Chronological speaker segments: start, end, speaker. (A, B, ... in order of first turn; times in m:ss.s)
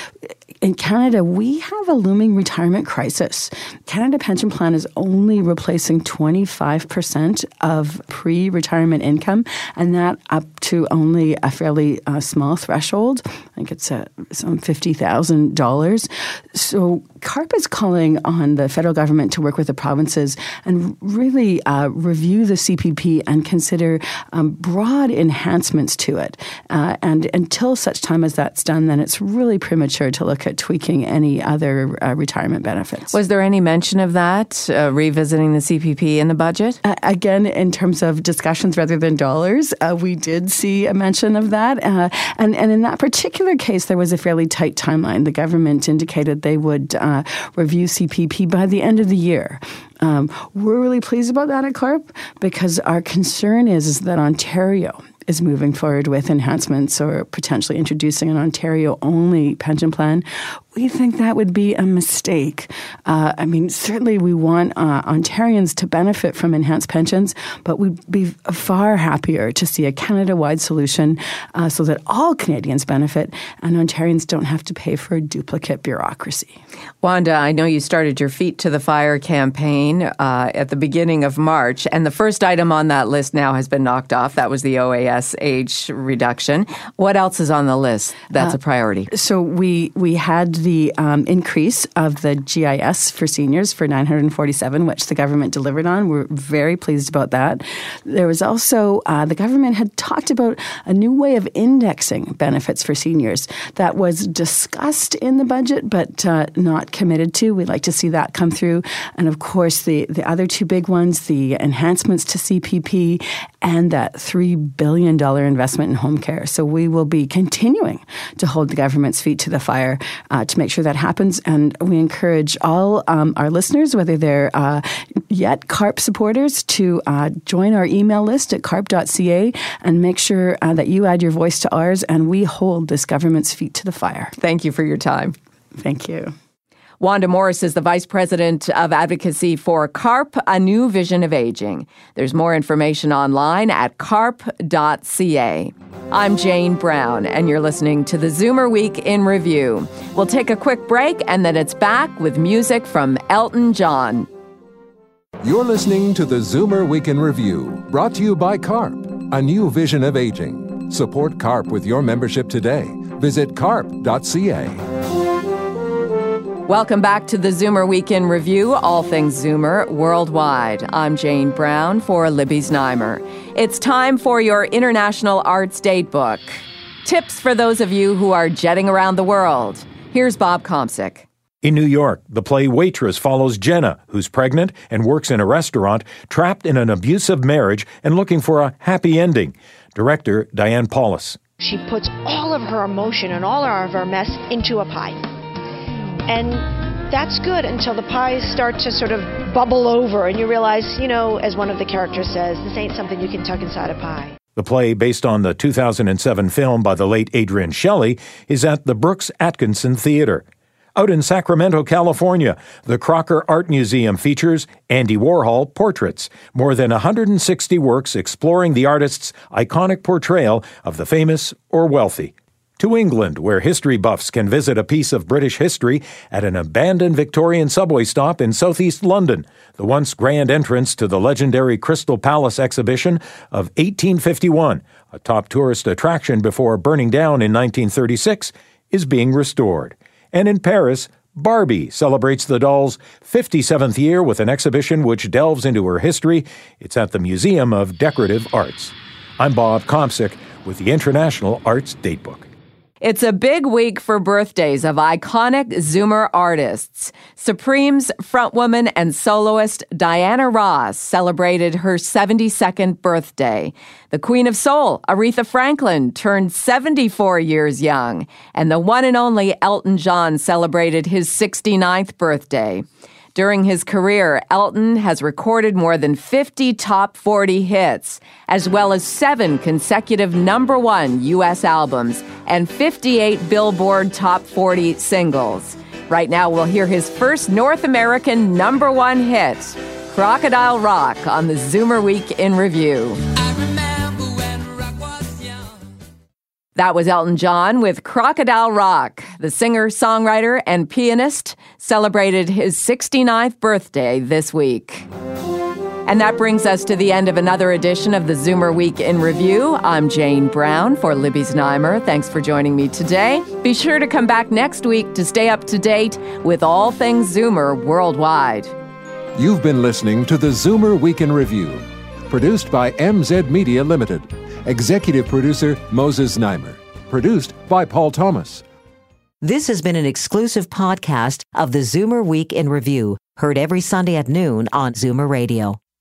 0:00.6-0:33.2 A
0:33.1-0:36.8 B
0:36.8-1:16.6 A
1:17.0-1:29.1 B
1:29.1-2:14.3 A
2:14.4-2:15.3 B
2:15.8-2:16.3 A
2:17.0-2:34.3 B
2:35.4-2:44.8 C
2:46.6-3:01.2 B
3:01.6-3:11.4 D
3:11.6-3:15.2 E
3:16.2-3:24.4 E
3:24.6-4:12.5 D
4:13.0-4:55.5 B
4:56.8-5:05.1 B
5:06.0-5:18.7 B
5:19.3-5:28.6 C
5:29.4-5:35.8 F